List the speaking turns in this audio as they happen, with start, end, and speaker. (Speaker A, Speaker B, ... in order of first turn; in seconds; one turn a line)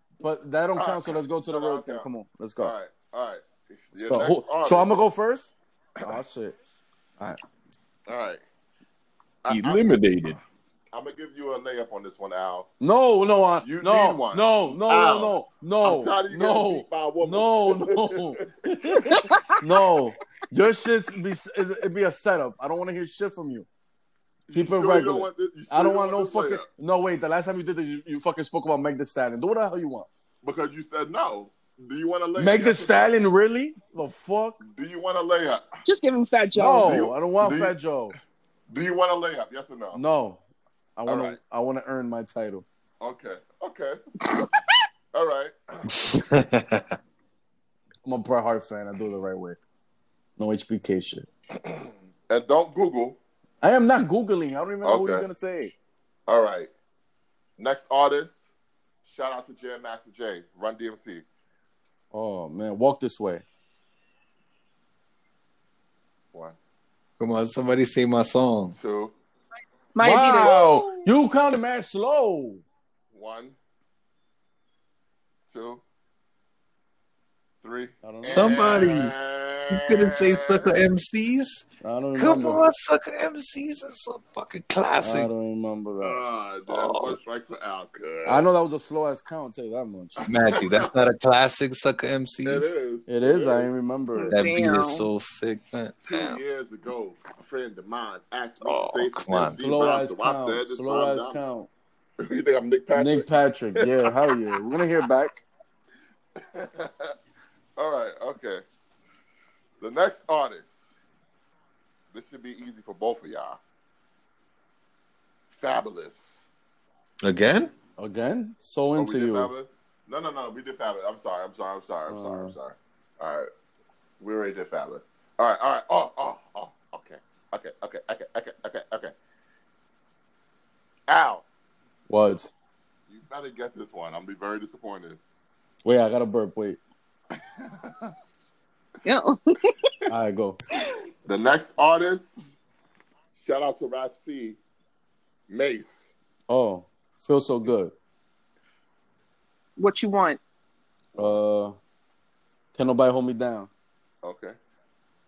Speaker A: 0.2-2.7
Speaker B: 0.8-2.1
Speaker B: 2.6-4.9
Speaker A: 4.0-5.5
Speaker A: 6.0-6.6
Speaker B: 8.1-8.4
Speaker B: 9.4-10.4
Speaker C: 9.5-10.4
Speaker B: 10.9-12.7
Speaker A: 12.8-23.7
Speaker B: 13.6-19.2
Speaker D: 19.1-19.5
Speaker B: 24.5-26.7
Speaker A: 24.5-30.1
Speaker B: 30.4-33.1
Speaker A: 32.4-34.6
Speaker B: 34.6-35.6
Speaker D: 35.9-37.1
Speaker A: 36.5-38.1
Speaker B: 36.8-37.8
Speaker B: 38.7-40.0
Speaker A: 39.9-40.4
Speaker A: 41.0-42.6
Speaker B: 41.1-41.4
Speaker B: 43.0-44.0
Speaker B: 45.1-46.1
Speaker C: 45.9-47.0
Speaker A: 48.0-49.6
Speaker A: 50.4-51.3
Speaker B: 51.6-53.2
Speaker A: 53.6-55.7
Speaker B: 54.8-55.3
Speaker B: 56.3-56.7
Speaker B: 57.6-58.4
Speaker B: 59.0-61.2
Speaker A: 62.1-63.4
Speaker C: 67.2-68.8
Speaker B: 68.8-69.2
Speaker D: 69.9-70.7
Speaker A: 70.0-72.6
Speaker B: 70.1-71.1
Speaker B: 73.1-73.6
Speaker B: 75.5-75.8
Speaker B: 77.6-80.8
Speaker A: 78.0-78.5
Speaker C: 78.2-79.1
Speaker C: 79.7-85.3
Speaker A: 81.8-82.7
Speaker A: 85.0-86.2
Speaker B: 86.0-88.5
Speaker C: 86.7-87.2
Speaker A: 88.3-90.2
Speaker B: 90.2-90.9
Speaker C: 90.3-92.8
Speaker B: 92.4-93.7
Speaker A: 93.1-94.3
Speaker D: 94.1-95.1
Speaker C: 94.3-96.4
Speaker B: 96.1-101.4
Speaker C: 98.6-99.6
Speaker A: 99.6-101.7
Speaker B: 102.2-104.3
Speaker A: 102.9-105.4
Speaker B: 106.4-107.1
Speaker B: 107.8-108.6
Speaker B: 109.8-110.7
Speaker B: 112.1-113.6
Speaker B: 115.5-116.3
Speaker C: 117.2-117.7
Speaker A: 118.0-119.5
Speaker B: 119.0-123.5
Speaker A: 122.1-122.5
Speaker B: 124.2-129.1
Speaker B: 131.1-131.4
Speaker A: 132.1-132.5
Speaker B: 133.1-135.2
Speaker A: 135.8-136.8
Speaker B: 137.6-138.1
Speaker D: 139.1-139.7
Speaker A: 140.1-140.6
Speaker B: 141.3-142.3
Speaker B: 143.4-144.6
Speaker B: 145.5-146.0
Speaker A: 146.5-147.9
Speaker D: 149.8-150.4
Speaker A: 151.2-151.8
Speaker A: 152.8-153.7
Speaker B: 154.2-154.6